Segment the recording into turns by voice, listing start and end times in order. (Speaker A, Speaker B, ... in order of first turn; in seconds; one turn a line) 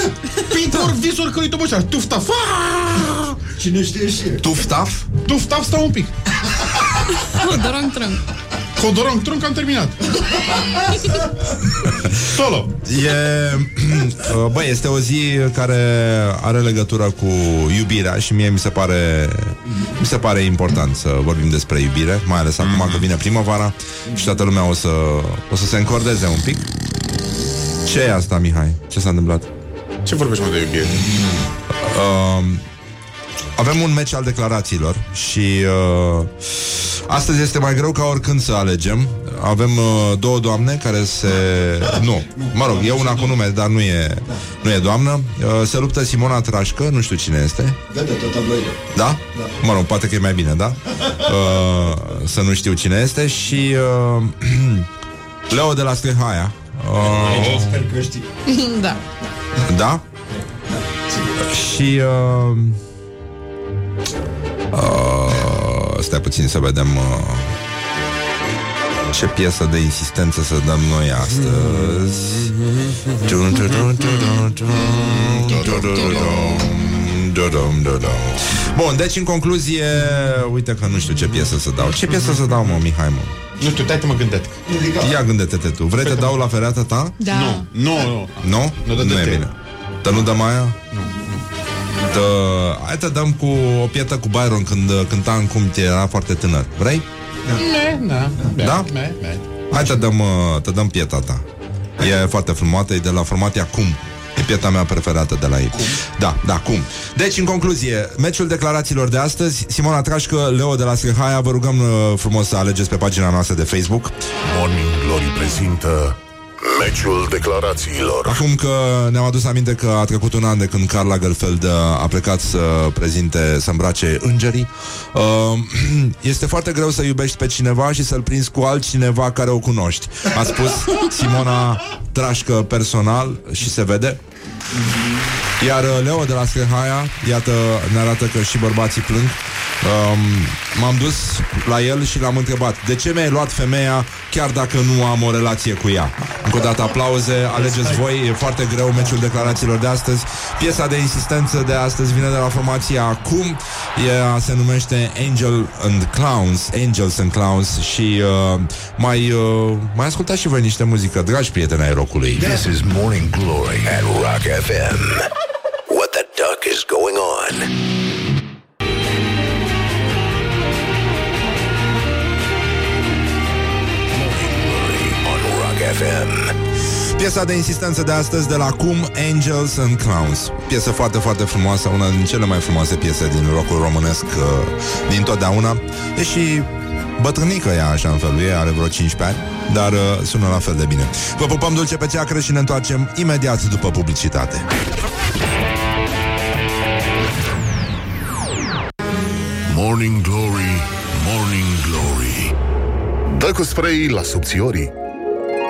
Speaker A: 0.4-3.4
Speaker B: 3.5-4.4
Speaker C: 4.4-5.0
Speaker A: 5.2-6.1
Speaker D: 7.3-8.2
Speaker A: 8.8-10.0
Speaker A: 12.3-12.7
Speaker C: 12.8-26.6
Speaker A: 22.6-23.0
Speaker C: 27.8-29.5
Speaker A: 30.1-31.2
Speaker C: 31.7-32.6
Speaker C: 33.5-36.3
Speaker C: 37.1-47.8
Speaker B: 47.9-48.8
Speaker C: 48.9-54.9
Speaker C: 55.5-57.8
Speaker B: 57.1-58.2
Speaker D: 58.5-59.0
Speaker C: 59.7-60.0
Speaker C: 61.4-62.8
Speaker C: 64.7-67.5
Speaker C: 69.1-72.5
Speaker C: 73.2-83.3
Speaker D: 75.8-76.5
Speaker A: 82.0-82.5
Speaker A: 83.6-84.6
Speaker B: 84.7-85.1
Speaker C: 85.0-87.2
Speaker A: 86.0-86.3
Speaker A: 87.2-89.4
Speaker C: 88.4-90.8
Speaker A: 90.9-91.3
Speaker C: 92.1-97.0
Speaker A: 97.5-99.4
Speaker C: 98.6-98.9
Speaker C: 99.7-101.4
Speaker C: 102.0-114.1
Speaker E: 114.4-118.4
Speaker C: 118.2-134.2
Speaker C: 135.6-162.5
Speaker F: 162.4-165.3
Speaker F: 165.9-167.7
Speaker F: 174.1-176.6
Speaker C: 177.1-194.6
Speaker E: 199.7-202.6
Speaker E: 203.3-204.9